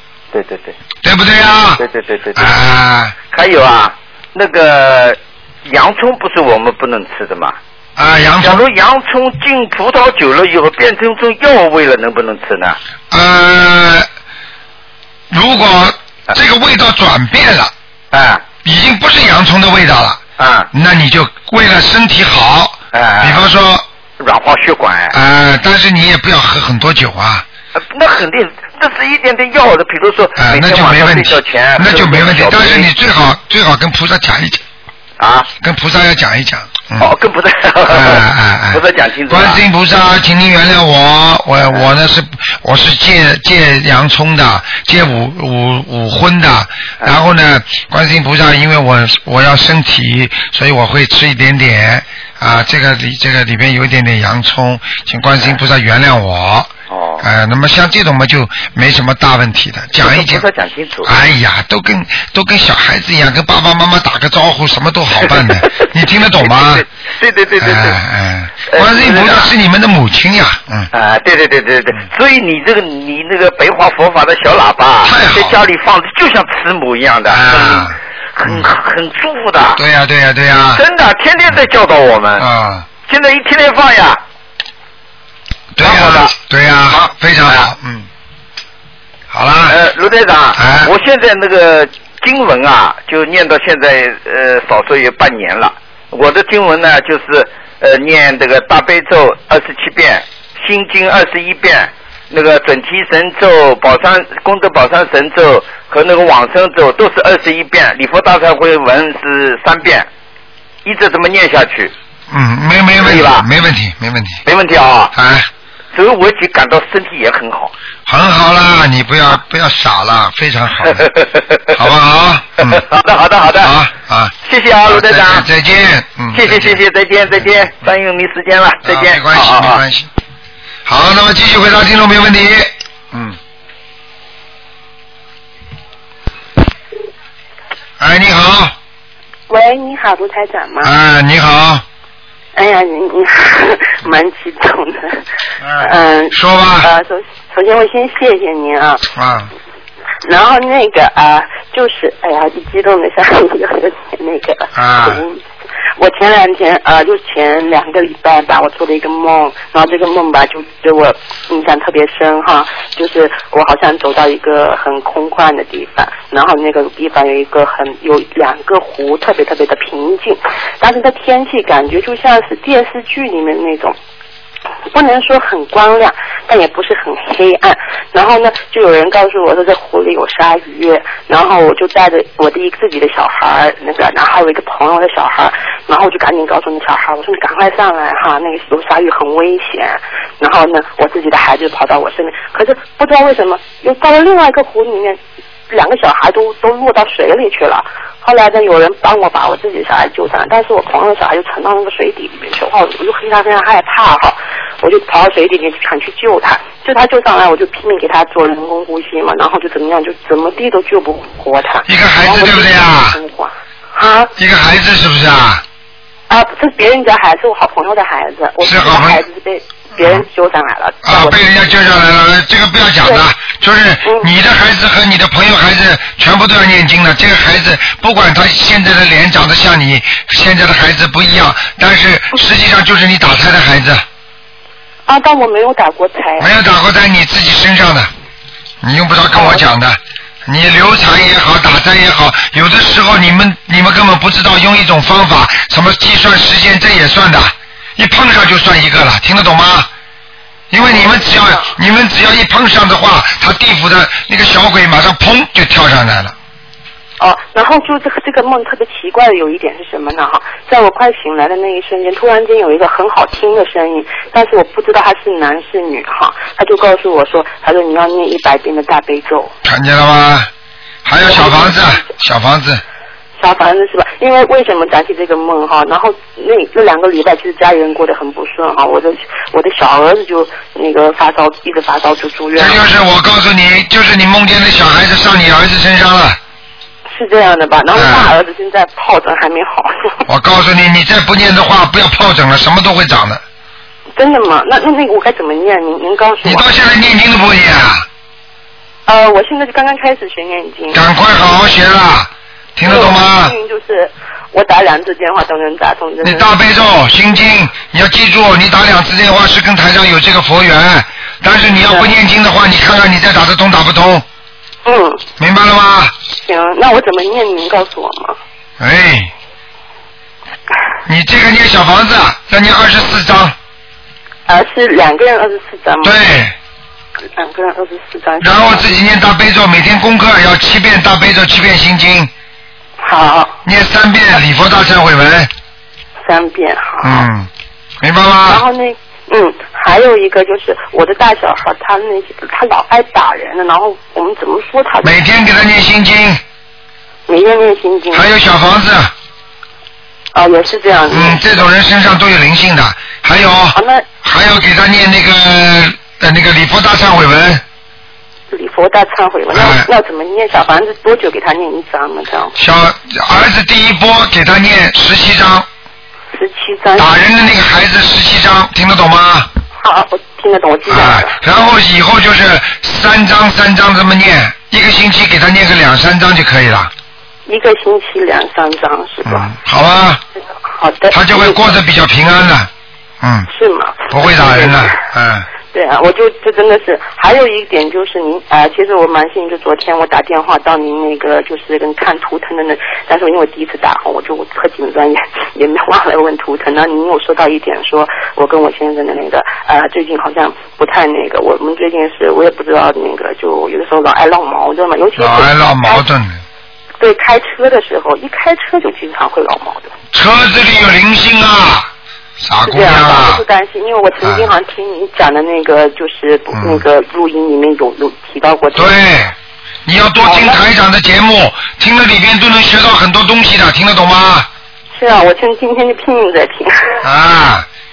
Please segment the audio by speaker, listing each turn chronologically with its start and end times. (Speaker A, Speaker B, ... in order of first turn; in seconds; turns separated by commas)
Speaker A: 0.3-0.7, Speaker B: 1.0-1.8, Speaker A: 1.8-2.5, Speaker B: 2.3-3.1, Speaker A: 3.3-7.6, Speaker B: 8.0-8.6, Speaker A: 8.4-12.8, Speaker B: 13.1-14.1, Speaker B: 15.3-17.7, Speaker A: 18.1-18.4, Speaker B: 18.6-20.2, Speaker A: 20.4-20.7, Speaker B: 20.7-23.8, Speaker A: 22.9-23.4, Speaker A: 24.2-25.1, Speaker B: 25.1-27.4, Speaker A: 27.7-32.9, Speaker B: 30.4-34.6, Speaker A: 35.2-35.5, Speaker B: 35.6-37.1, Speaker A: 37.0-39.6, Speaker B: 37.9-60.4, Speaker A: 56.9-57.2, Speaker A: 60.0-61.1, Speaker B: 61.0-66.8, Speaker A: 65.2-65.8, Speaker A: 66.4-68.0, Speaker B: 67.6-70.9, Speaker A: 68.7-69.5, Speaker A: 70.9-79.8, Speaker B: 75.0-75.6, Speaker B: 77.3-78.7, Speaker B: 79.8-80.8, Speaker A: 80.7-82.5, Speaker B: 82.4-82.8, Speaker A: 83.0-84.2, Speaker B: 85.7-88.1, Speaker A: 85.8-86.3, Speaker A: 86.9-87.7, Speaker B: 89.3-89.8, Speaker A: 89.7-110.1, Speaker B: 90.5-90.9, Speaker A: 110.8-111.9, Speaker B: 112.3-114.4, Speaker A: 113.0-113.5, Speaker A: 114.5-115.1, Speaker B: 115.1-115.5, Speaker A: 115.9-117.7, Speaker B: 118.0-121.1, Speaker A: 120.8-121.8, Speaker B: 121.7-122.8, Speaker A: 122.6-123.7, Speaker B: 123.6-124.3, Speaker A: 124.4-125.5, Speaker B: 124.9-126.8, Speaker A: 126.3-129.8, Speaker B: 128.8-130.1, Speaker B: 130.8-133.4, Speaker B: 138.0-138.7, Speaker C: 139.5-140.9, Speaker B: 140.8-141.8, Speaker C: 142.5-145.2, Speaker B: 145.6-146.9, Speaker C: 145.8-149.0, Speaker B: 149.1-149.5, Speaker C: 150.2-155.4, Speaker B: 154.7-155.2, Speaker C: 156.0-173.9, Speaker C: 174.9-214.3, Speaker B: 211.9-213.2, Speaker B: 214.4-215.6, Speaker C: 216.3-221.6, Speaker B: 218.6-219.2, Speaker B: 221.0-234.0, Speaker C: 224.0-224.3, Speaker C: 235.1-236.5, Speaker B: 236.4-238.1, Speaker B: 238.8-249.9, Speaker C: 239.3-239.6, Speaker B: 250.7-256.3, Speaker C: 250.8-251.7, Speaker C: 257.2-269.5, Speaker B: 269.6-270.5, Speaker B: 271.0-272.8, Speaker C: 271.2-272.1, Speaker C: 273.4-282.8, Speaker B: 282.6-286.4, Speaker C: 287.1-290.1, Speaker B: 287.9-288.3, Speaker B: 290.3-293.4, Speaker C: 294.2-296.7, Speaker B: 296.4-298.1, Speaker C: 299.1-301.0, Speaker B: 300.9-303.5, Speaker C: 302.8-306.5, Speaker B: 306.2-314.2, Speaker C: 311.8-312.1, Speaker C: 314.8-315.2, Speaker B: 315.4-316.1, Speaker C: 316.4-318.4, Speaker B: 318.8-319.3, Speaker B: 321.1-323.5, Speaker C: 324.5-326.2, Speaker B: 326.0-326.5, Speaker C: 327.4-329.0, Speaker B: 328.4-332.3, Speaker C: 333.0-333.6, Speaker B: 333.6-335.5, Speaker C: 336.2-337.3, Speaker B: 337.0-337.5, Speaker B: 338.0-338.6, Speaker C: 338.5-345.3, Speaker B: 345.0-346.4, Speaker C: 347.3-348.3, Speaker B: 348.1-349.1, Speaker C: 350.3-351.7, Speaker B: 351.1-357.6, Speaker C: 353.7-354.1, Speaker C: 358.5-362.5, Speaker B: 359.5-359.9, Speaker B: 362.6-365.7, Speaker C: 366.3-367.2, Speaker B: 367.0-369.5, Speaker C: 369.8-371.4, Speaker B: 370.9-376.9, Speaker C: 377.5-379.5, Speaker B: 379.3-380.2, Speaker C: 380.8-381.8, Speaker B: 381.1-382.7, Speaker B: 383.2-383.5, Speaker C: 383.5-384.9, Speaker B: 384.1-385.5, Speaker C: 385.7-406.0, Speaker B: 405.2-406.4, Speaker C: 407.0-409.9, Speaker B: 410.1-411.9, Speaker B: 412.4-413.4, Speaker C: 412.6-419.0, Speaker B: 416.5-416.8, Speaker B: 418.8-424.5, Speaker C: 420.2-420.6, Speaker C: 424.9-427.0, Speaker B: 427.0-427.7